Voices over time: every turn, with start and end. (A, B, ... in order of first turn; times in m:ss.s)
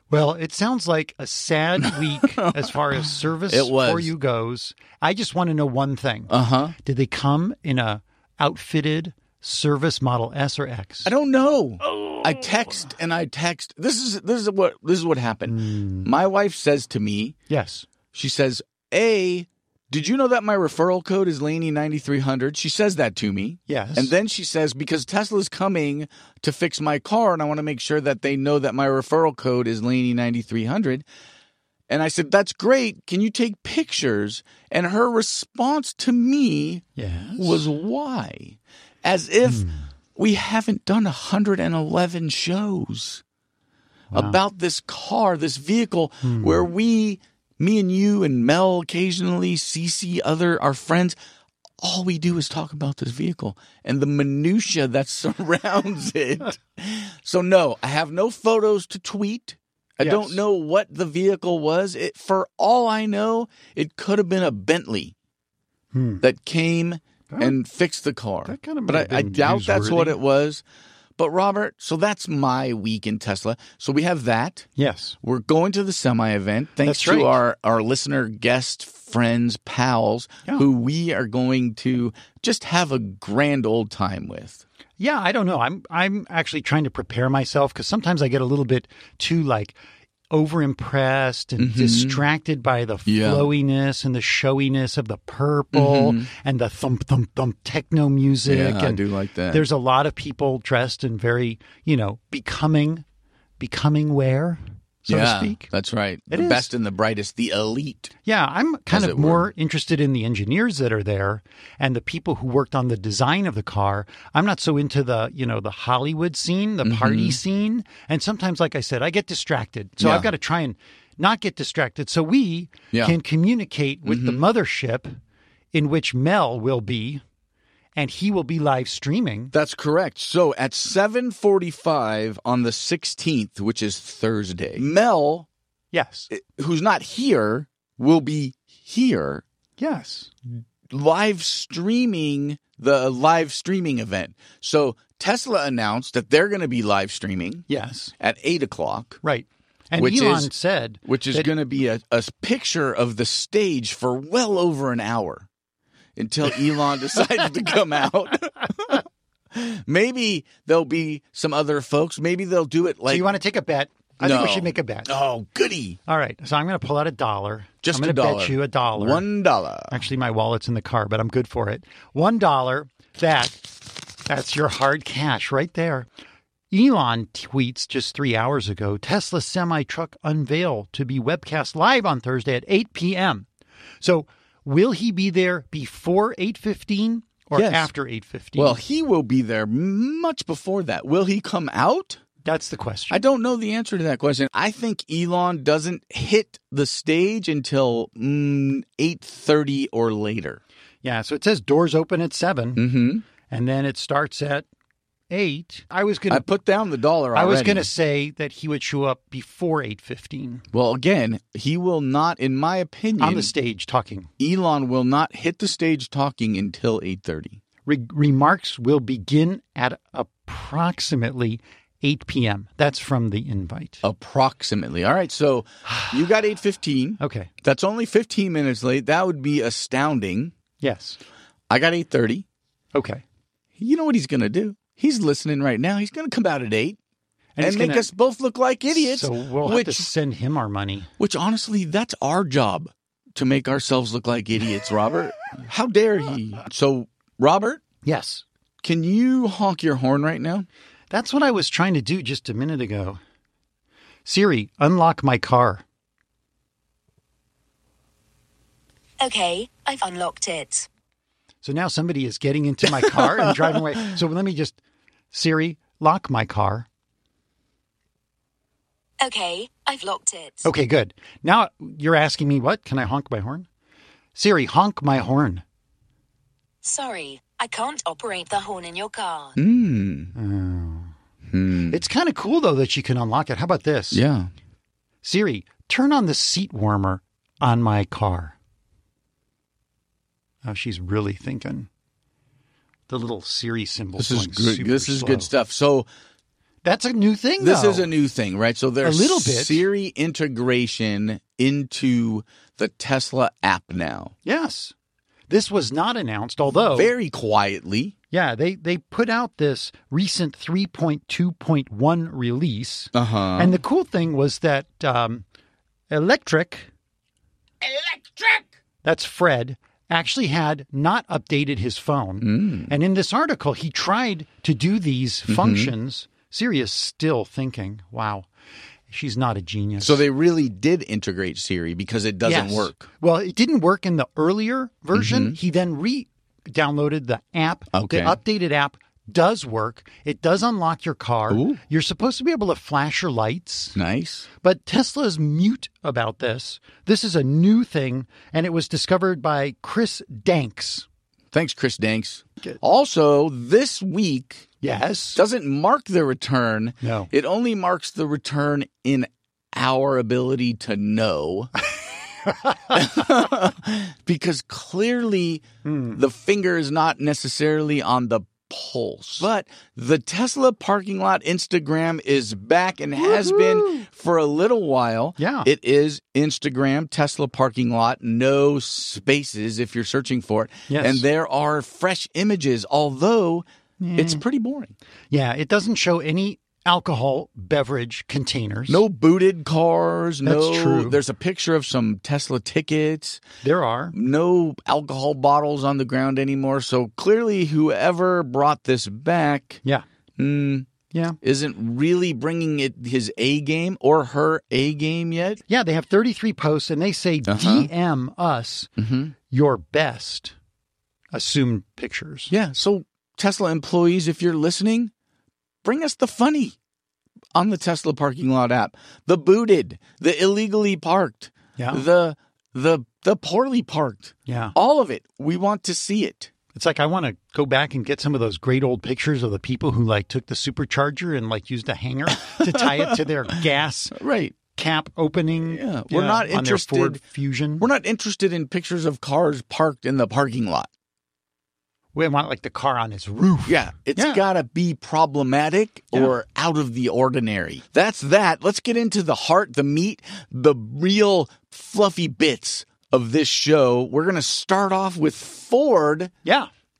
0:00.1-0:11.1 A
0:01.8-0:04.1 B
0:06.3-0:06.7 B
0:11.0-0:17.3 B
0:12.2-0:12.7 A
0:15.5-0:16.1 A
0:17.5-0:17.8 A
0:18.1-0:31.0 B
0:23.7-0:24.1 A
0:31.9-0:43.2 B
0:37.0-0:37.6 A
0:39.4-0:39.8 A
0:44.1-0:44.4 A
0:44.1-0:51.2 B
0:46.2-0:46.7 A
0:51.8-1:05.1 B
1:00.0-1:00.4 A
1:05.9-1:06.2 A
1:06.2-1:10.6 B
1:07.3-1:07.6 A
1:08.4-1:10.2 A
1:11.2-1:14.6 B
1:14.8-1:15.2 A
1:15.2-1:24.6 B
1:16.8-1:17.4 A
1:25.0-1:29.8 A
1:30.3-1:43.0 A
1:31.6-1:32.2 B
1:33.0-1:33.5 B
1:35.7-1:36.3 B
1:38.4-1:39.7 B
1:43.6-1:45.7 A
1:45.1-1:48.1 B
1:46.3-1:46.7 A
1:48.2-2:05.2 A
1:48.9-1:49.5 B
1:56.8-1:57.4 B
2:00.0-2:00.3 B
2:04.0-2:04.4 B
2:05.7-2:07.2 A
2:07.9-2:09.5 A
2:09.5-2:15.5 B
2:15.9-2:16.3 A
2:16.3-2:19.4 B
2:19.8-2:20.3 A
2:20.9-2:27.6 B
2:27.7-2:28.1 A
2:28.2-2:29.2 B
2:29.2-2:31.5 A
2:30.0-2:30.5 B
2:31.0-2:35.5 B
2:36.2-2:43.3 B
2:43.1-2:45.1 A
2:44.2-2:46.0 B
2:46.1-2:49.2 A
2:47.8-2:50.0 B
2:49.9-2:56.1 A
2:56.7-3:03.5 A
3:04.0-3:08.8 A
3:07.5-3:07.9 B
3:08.6-3:12.2 B
3:12.4-3:13.2 A
3:13.1-3:20.6 B
3:21.0-3:22.8 A
3:22.8-3:23.2 B
3:23.4-3:24.6 A
3:25.3-3:26.4 A
3:26.3-3:27.9 B
3:27.3-3:30.6 A
3:30.7-3:33.5 B
3:33.2-3:34.3 A
3:34.4-3:37.6 B
3:37.8-3:44.0 A
3:44.0-3:50.5 B
3:45.8-3:46.3 A
3:47.2-3:47.5 A
3:50.8-3:51.2 A
3:51.7-3:52.4 B
3:52.9-3:53.2 A
3:53.8-3:57.0 B
3:57.6-3:58.1 A
3:57.6-4:00.1 B
3:58.9-4:01.1 A
4:01.2-4:07.8 B
4:08.0-4:08.4 A
4:08.8-4:10.7 B
4:11.1-4:13.2 A
4:14.2-4:15.8 A
4:19.2-4:20.9 C
4:21.6-4:24.8 A
4:23.0-4:24.1 B
4:25.3-4:26.9 A
4:29.2-4:30.6 C
4:30.6-4:33.7 A
4:34.3-4:35.6 A
4:36.8-4:39.6 C
4:39.6-4:40.3 B
4:40.3-4:41.1 A
4:41.5-4:42.0 B
4:41.9-4:44.2 A
4:44.1-4:44.5 B
4:45.2-4:48.5 A
4:50.6-4:51.9 A
4:53.1-4:55.5 A
4:54.2-4:56.1 B
4:56.8-4:58.1 A
4:57.6-5:04.3 B
4:59.0-4:59.8 A
5:04.4-5:04.9 A
5:05.5-5:07.1 A
5:06.9-5:08.1 B
5:08.3-5:15.4 A
5:13.1-5:13.8 B
5:16.1-5:16.9 A
5:18.0-5:18.6 B
5:19.0-5:28.5 A
5:22.4-5:22.9 B
5:25.5-5:25.9 B
5:29.1-5:30.2 A
5:30.0-5:33.1 B
5:32.4-5:44.0 A
5:35.1-5:35.6 B
5:37.9-5:38.4 B
5:41.5-5:41.8 B
5:43.9-5:44.5 B
5:44.6-5:51.0 A
5:51.5-5:54.6 B
5:54.8-5:55.4 A
5:55.3-6:01.7 B
5:57.0-5:57.3 A
6:02.4-6:03.1 A
6:02.9-6:23.6 B
6:05.8-6:06.2 A
6:13.2-6:14.0 A
6:15.4-6:15.7 A
6:20.9-6:21.2 A
6:24.0-6:24.4 A
6:24.2-6:24.9 B
6:25.3-6:29.0 A
6:28.9-6:33.4 B
6:30.4-6:31.2 A
6:33.6-6:34.1 A
6:34.1-6:39.8 B
6:40.4-6:40.9 B
6:41.1-6:41.4 A
6:41.4-6:45.6 B
6:45.7-6:48.9 A
6:47.4-6:47.9 B
6:49.0-6:49.3 B
6:49.5-6:50.5 A
6:51.3-6:52.5 A
6:52.5-6:55.1 B
6:55.8-6:56.7 B
6:57.5-7:06.5 B
7:01.8-7:02.0 A
7:04.5-7:04.7 A
7:06.7-7:14.2 A
7:12.4-7:13.6 B
7:14.1-7:14.6 B
7:14.7-7:17.8 A
7:15.6-7:17.2 B
7:17.8-7:20.9 B
7:22.1-7:24.4 A
7:23.6-7:36.3 B
7:36.4-7:36.7 A